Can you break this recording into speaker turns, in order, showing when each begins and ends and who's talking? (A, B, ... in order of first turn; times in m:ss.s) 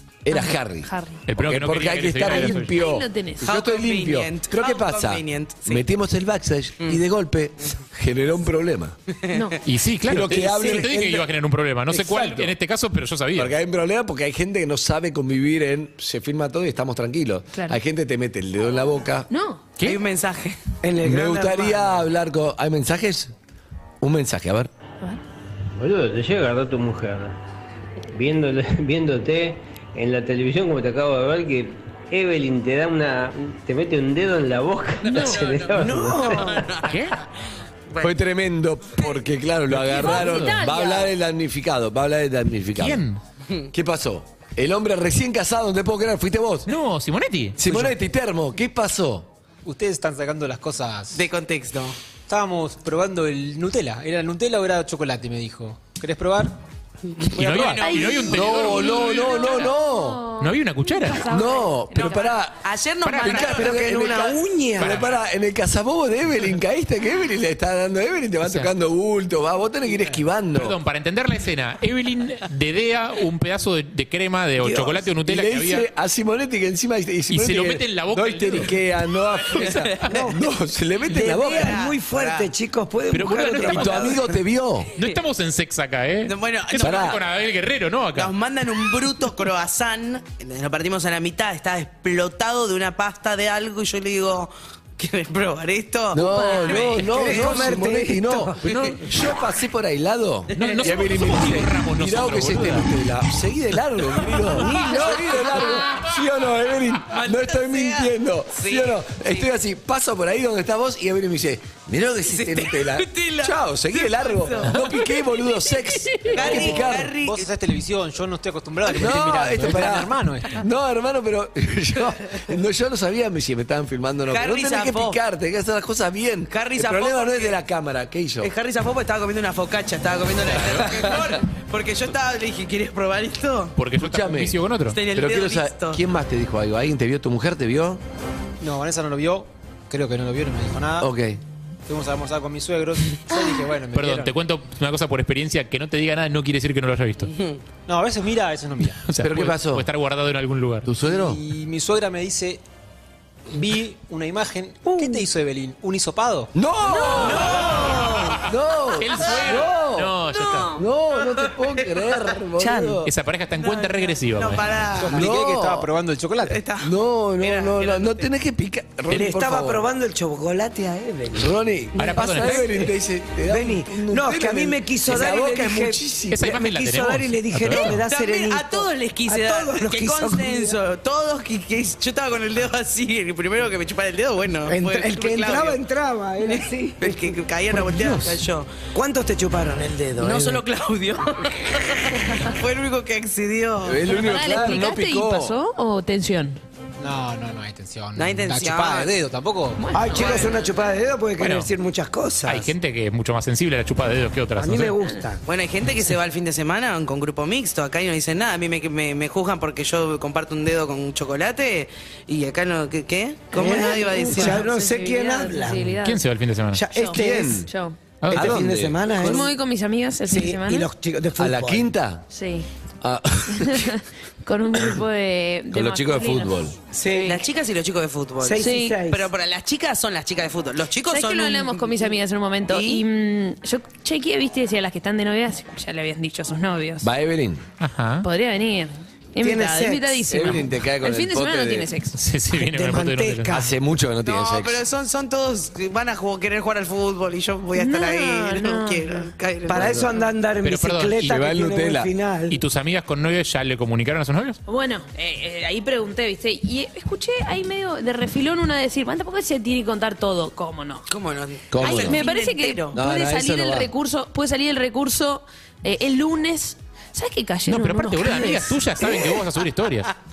0:00.2-0:08.9 A
0:00.3-0:01.2 B
0:01.3-0:02.8 C
0:02.2-0:03.5 B
0:03.4-0:05.8 D
0:09.2-0:09.6 D
0:09.3-0:09.6 B
0:09.6-0:13.5 C
0:10.0-0:11.3 A
0:11.9-0:12.5 A
0:13.3-0:19.3 A
0:19.3-0:19.6 B
0:19.8-0:20.6 D
0:20.8-0:22.0 E
0:21.0-0:23.3 A
0:24.0-0:24.7 A
0:25.8-0:27.4 F
0:28.1-0:36.6 F
0:35.0-0:35.4 B
0:35.0-0:37.2 D
0:35.7-0:36.6 E
0:36.8-0:37.2 C
0:38.0-0:43.0 A
0:39.7-0:40.5 C
0:39.9-0:41.1 B
0:42.8-0:43.2 C
0:43.7-0:46.7 A
0:46.7-0:47.6 C
0:47.6-0:49.3 A
0:47.6-0:47.9 G
0:49.6-0:51.2 G
0:51.1-0:52.0 D
0:52.3-0:56.6 G
0:57.2-0:58.4 D
0:57.3-0:59.7 C
0:57.7-1:02.3 B
0:58.3-1:00.2 A
1:00.4-1:01.3 C
1:01.2-1:02.6 A
1:02.0-1:04.3 D
1:03.0-1:03.5 C
1:03.3-1:10.8 A
1:03.4-1:05.0 E
1:04.8-1:05.2 C
1:08.4-1:08.7 C
1:10.6-1:15.8 C
1:14.6-1:15.0 E
1:15.2-1:21.8 A
1:17.3-1:18.7 C
1:19.6-1:20.1 D
1:19.6-1:20.1 C
1:20.1-1:20.5 E
1:21.1-1:24.4 E
1:21.1-1:22.5 D
1:23.1-1:24.2 C
1:23.6-1:24.9 A
1:25.0-1:28.3 C
1:26.2-1:27.2 D
1:26.8-1:27.2 A
1:28.1-1:37.7 D
1:36.1-1:57.1 A
1:36.2-1:36.8 B
1:37.1-1:39.0 E
1:38.6-1:39.0 D
1:40.5-1:40.8 D
1:40.6-1:42.9 C
1:44.6-1:45.6 D
1:47.1-1:49.4 D
1:52.2-1:54.7 D
1:56.3-2:00.6 G
1:56.3-1:57.5 D
1:58.9-2:08.5 A
2:04.3-2:05.2 D
2:06.5-2:07.6 D
2:08.4-2:13.8 D
2:10.4-2:10.9 C
2:13.8-2:15.0 C
2:14.0-2:18.0 A
2:14.8-2:16.0 D
2:18.6-2:21.1 G
2:21.0-2:21.4 A
2:21.8-2:24.3 G
2:23.9-2:27.3 C
2:27.3-2:27.6 D
2:27.8-2:29.0 G
2:29.0-2:30.9 C
2:29.2-2:29.9 A
2:30.8-2:31.4 A
2:31.0-2:32.6 G
2:33.5-2:36.5 G
2:36.5-2:40.2 A
2:37.0-2:38.2 D
2:37.6-2:40.8 C
2:40.7-2:43.1 A
2:41.3-2:43.0 D
2:43.0-2:44.7 C
2:43.6-2:45.3 D
2:45.0-2:46.6 G
2:45.1-2:45.9 A
2:46.4-2:48.2 D
2:46.8-2:49.8 A
2:49.1-2:51.5 E
2:51.3-2:56.4 A
2:52.0-2:52.7 C
2:52.0-2:52.4 D
2:53.5-3:00.8 E
2:56.3-2:58.0 C
2:57.8-3:05.8 D
3:04.7-3:07.4 E
3:06.4-3:08.7 D
3:08.9-3:10.6 E
3:10.2-3:14.6 D
3:13.8-3:15.6 A
3:14.1-3:16.6 B
3:17.0-3:19.8 G
3:18.2-3:19.1 D
3:19.8-3:20.7 B
3:19.9-3:22.7 E
3:20.2-3:20.6 D
3:21.4-3:21.7 C
3:22.4-3:25.0 C
3:24.6-3:25.4 E
3:25.4-3:34.6 D
3:33.5-3:36.0 E
3:33.6-3:36.2 B
3:36.0-3:36.8 C
3:36.7-3:37.7 E
3:36.9-3:38.0 B
3:37.1-3:37.7 A
3:38.2-3:38.6 C
3:38.3-3:39.5 E
3:38.3-3:39.4 A
3:39.2-3:40.9 B
3:40.3-3:41.9 E
3:41.4-3:42.2 A
3:42.3-3:42.7 B
3:43.0-3:43.9 A
3:43.5-3:46.5 B
3:45.7-3:46.8 A
3:46.9-3:47.4 E
3:47.1-3:53.0 D
3:48.4-3:49.3 E
3:48.6-3:49.0 B
3:51.1-3:57.1 B
3:57.0-3:57.6 A
3:57.8-3:58.2 C
3:58.2-4:02.2 B
3:59.4-4:00.2 E
4:00.3-4:01.9 A
4:02.2-4:03.6 C
4:02.6-4:03.7 E
4:03.5-4:04.8 A
4:04.2-4:10.1 D
4:07.8-4:09.3 B
4:09.7-4:12.6 E
4:09.8-4:10.0 A
4:10.6-4:11.4 C
4:11.2-4:12.1 A
4:12.5-4:14.6 C
4:14.7-4:21.1 B
4:21.1-4:23.0 D
4:21.7-4:22.2 A
4:21.8-4:28.8 B
4:22.9-4:23.9 A
4:27.7-4:30.1 C